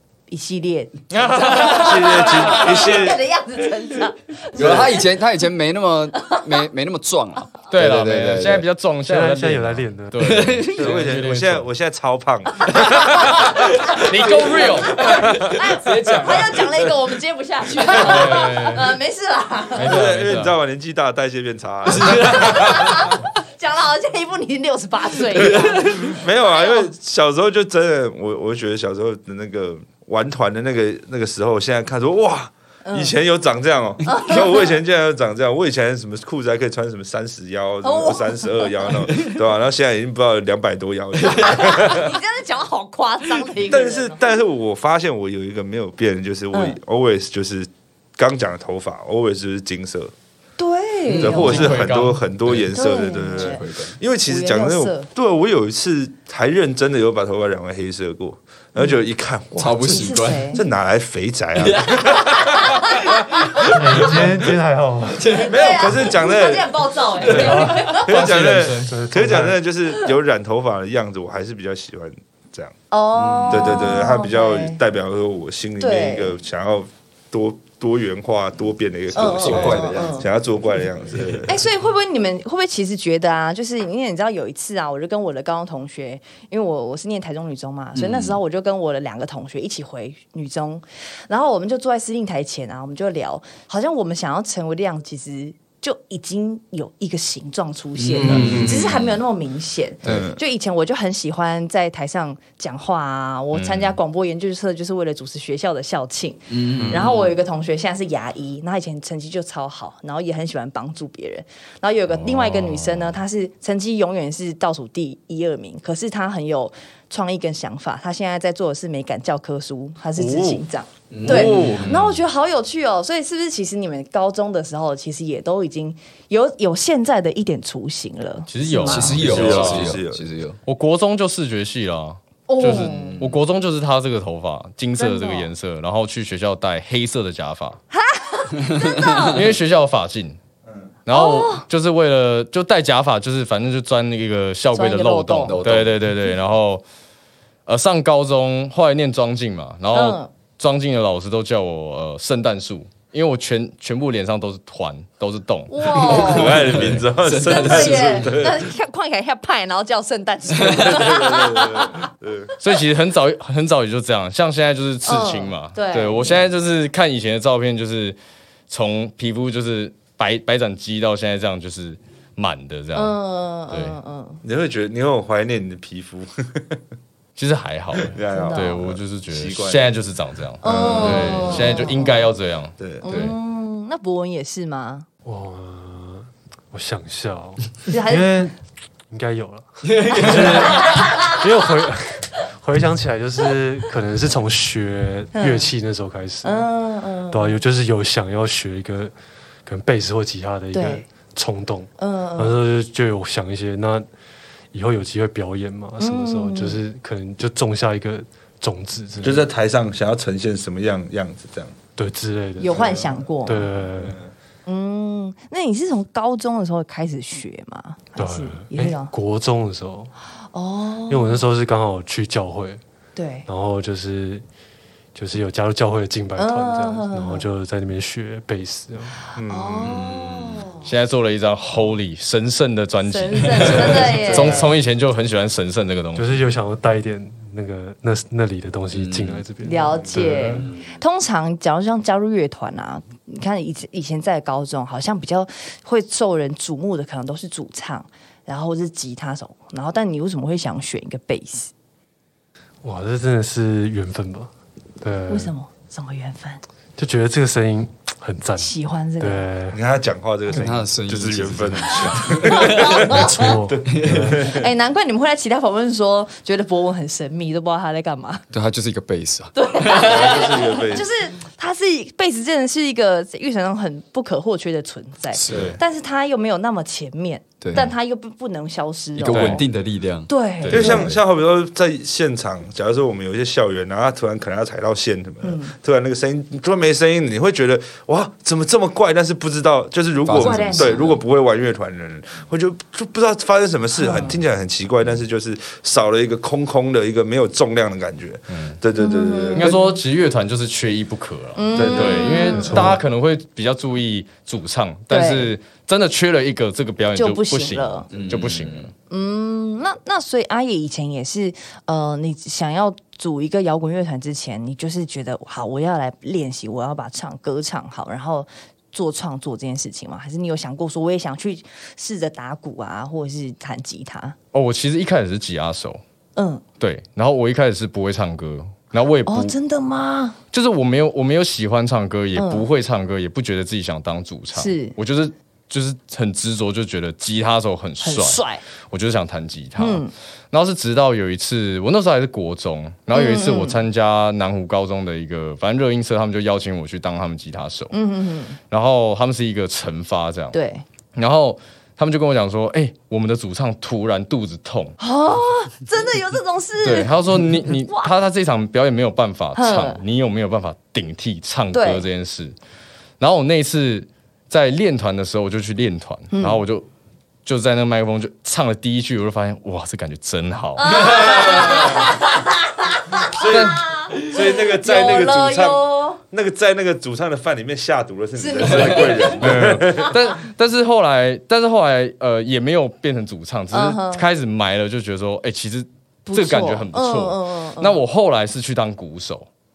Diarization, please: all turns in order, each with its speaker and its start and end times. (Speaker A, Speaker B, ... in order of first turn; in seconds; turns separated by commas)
Speaker A: 0.3-5.0, Speaker B: 1.1-2.6, Speaker C: 1.7-3.2, Speaker D: 4.5-8.7, Speaker C: 4.6-4.9, Speaker A: 6.2-6.6, Speaker B: 7.7-11.7, Speaker E: 9.0-10.6, Speaker D: 10.2-11.0, Speaker C: 10.7-14.0, Speaker B: 13.5-15.2, Speaker D: 15.0-16.9, Speaker A: 15.0-20.0, Speaker C: 15.0-15.6, Speaker B: 17.9-18.9, Speaker B: 19.8-20.6, Speaker C: 19.8-23.1, Speaker D: 22.0-22.5, Speaker A: 22.1-26.9, Speaker C: 25.4-42.2, Speaker A: 32.8-33.1, Speaker A: 34.0-34.7, Speaker A: 37.8-38.9, Speaker A: 41.3-44.2, Speaker C: 43.6-50.1, Speaker A: 46.5-46.8, Speaker A: 50.6-51.8, Speaker D: 51.0-51.6, Speaker C: 51.2-59.9, Speaker B: 51.2-52.2, Speaker D: 52.5-53.9, Speaker A: 52.7-53.6, Speaker A: 54.2-55.1, Speaker D: 59.5-60.6, Speaker A: 59.8-60.6, Speaker C: 60.5-64.4, Speaker D: 61.6-62.2, Speaker A: 62.5-63.7, Speaker E: 63.6-65.3, Speaker D: 65.2-66.0, Speaker A: 65.3-68.1, Speaker C: 65.4-66.7, Speaker C: 67.2-72.7, Speaker E: 67.3-67.9, Speaker B: 67.8-68.9, Speaker D: 68.3-68.6, Speaker E: 68.9-69.6, Speaker A: 72.9-74.8, Speaker D: 73.1-74.0, Speaker C: 73.5-81.6, Speaker A: 75.8-76.3, Speaker D: 79.1-80.3, Speaker A: 79.1-80.3, Speaker A: 81.5-129.3, Speaker D: 87.9-88.4, Speaker D: 98.0-99.2, Speaker C: 98.2-98.9, Speaker D: 100.0-100.3, Speaker C: 100.0-100.4, Speaker B: 103.5-104.0, Speaker D: 106.5-107.3, Speaker C: 106.8-107.1, Speaker B: 112.1-113.2, Speaker C: 120.2-120.6, Speaker D: 121.1-121.9, Speaker B: 121.3-122.2, Speaker B: 128.5-130.0, Speaker D: 128.8-130.6, Speaker C: 129.1-130.2, Speaker B: 130.7-137.8, Speaker A: 132.5-133.2, Speaker D: 132.6-133.4, Speaker A: 135.0-135.5, Speaker A: 137.9-139.4, Speaker D: 138.8-139.5, Speaker B: 139.3-140.4, Speaker B: 141.1-146.8, Speaker A: 141.1-141.6, Speaker A: 144.7-145.6, Speaker D: 145.4-146.1, Speaker B: 147.7-157.1, Speaker A: 149.9-150.3, Speaker A: 155.7-156.7, Speaker D: 156.0-158.4, Speaker C: 156.1-158.7, Speaker A: 157.4-162.1, Speaker D: 160.6-160.9, Speaker C: 160.7-162.5, Speaker B: 162.6-168.2, Speaker A: 165.1-166.5, Speaker B: 168.7-173.2, Speaker A: 172.9-174.4, Speaker B: 173.7-174.0, Speaker C: 174.4-176.8, Speaker B: 177.4-183.3, Speaker C: 177.9-179.8, Speaker A: 178.3-178.8, Speaker A: 180.6-182.3, Speaker C: 180.6-181.9, Speaker C: 182.8-183.0, Speaker A: 183.0-185.1, Speaker E: 185.2-188.6, Speaker A: 187.9-188.4, Speaker E: 189.1-196.7, Speaker D: 189.9-190.8, Speaker A: 190.6-191.2, Speaker A: 195.3-195.7, Speaker A: 196.4-197.6, Speaker E: 197.3-199.1, Speaker E: 199.6-204.1, Speaker A: 200.7-201.1, Speaker A: 202.0-202.6, Speaker E: 204.7-209.5, Speaker A: 206.0-206.8, Speaker C: 209.2-211.8, Speaker E: 212.0-212.8, Speaker A: 212.6-213.7, Speaker C: 212.7-214.3, Speaker E: 213.4-214.2, Speaker A: 214.7-219.1, Speaker E: 218.2-220.1, Speaker A: 220.5-221.4, Speaker E: 221.1-222.8, Speaker A: 223.2-223.5, Speaker E: 223.4-224.4, Speaker E: 225.1-229.3, Speaker A: 226.3-227.5, Speaker C: 229.3-230.5, Speaker A: 229.5-230.9, Speaker B: 230.8-236.3, Speaker A: 233.1-234.7, Speaker C: 233.6-234.7, Speaker E: 236.1-240.7, Speaker D: 238.9-239.4, Speaker A: 239.6-251.7, Speaker C: 240.0-240.3, Speaker E: 252.8-255.5, Speaker A: 255.3-256.6, Speaker E: 256.9-259.8, Speaker A: 258.6-259.5, Speaker C: 259.7-264.7, Speaker D: 260.5-263.0, Speaker A: 262.4-263.5, Speaker E: 263.0-264.4, Speaker D: 263.9-264.4, Speaker A: 264.4-268.4, Speaker D: 268.5-270.5, Speaker A: 269.5-279.6, Speaker C: 269.9-271.1, Speaker D: 275.3-275.8, Speaker B: 275.5-275.8, Speaker D: 277.6-277.9, Speaker D: 279.1-281.2, Speaker B: 279.2-279.6, Speaker A: 280.3-281.1, Speaker B: 280.6-281.1, Speaker C: 280.7-299.8, Speaker A: 285.4-285.7, Speaker D: 290.2-291.2, Speaker A: 290.3-291.0, Speaker A: 293.9-294.4, Speaker B: 298.5-298.8, Speaker A: 298.9-300.0, Speaker B: 299.6-308.9, Speaker A: 301.6-302.9, Speaker C: 301.7-302.4, Speaker E: 302.5-303.0, Speaker A: 305.1-305.5, Speaker A: 307.1-308.1, Speaker D: 308.1-308.9, Speaker A: 309.1-324.4, Speaker B: 324.5-326.0, Speaker A: 326.4-326.6, Speaker B: 326.8-329.5, Speaker A: 329.0-330.4, Speaker B: 330.5-347.9, Speaker A: 332.4-332.7, Speaker A: 334.5-334.9, Speaker A: 338.0-338.6, Speaker A: 339.8-340.1, Speaker A: 343.1-343.8, Speaker A: 347.9-348.6, Speaker B: 348.7-350.6, Speaker A: 350.5-350.8, Speaker B: 351.1-355.0, Speaker A: 355.0-357.1, Speaker B: 356.8-362.5, Speaker A: 357.7-358.1, Speaker A: 359.6-360.0, Speaker A: 361.7-362.0, Speaker B: 363.2-366.9, Speaker A: 366.3-366.6, Speaker B: 367.4-372.0, Speaker A: 370.8-376.2, Speaker C: 370.9-372.1, Speaker C: 373.3-380.1, Speaker B: 373.5-373.8, Speaker A: 378.4-379.5, Speaker B: 379.3-389.5, Speaker A: 383.7-384.2, Speaker A: 386.2-388.0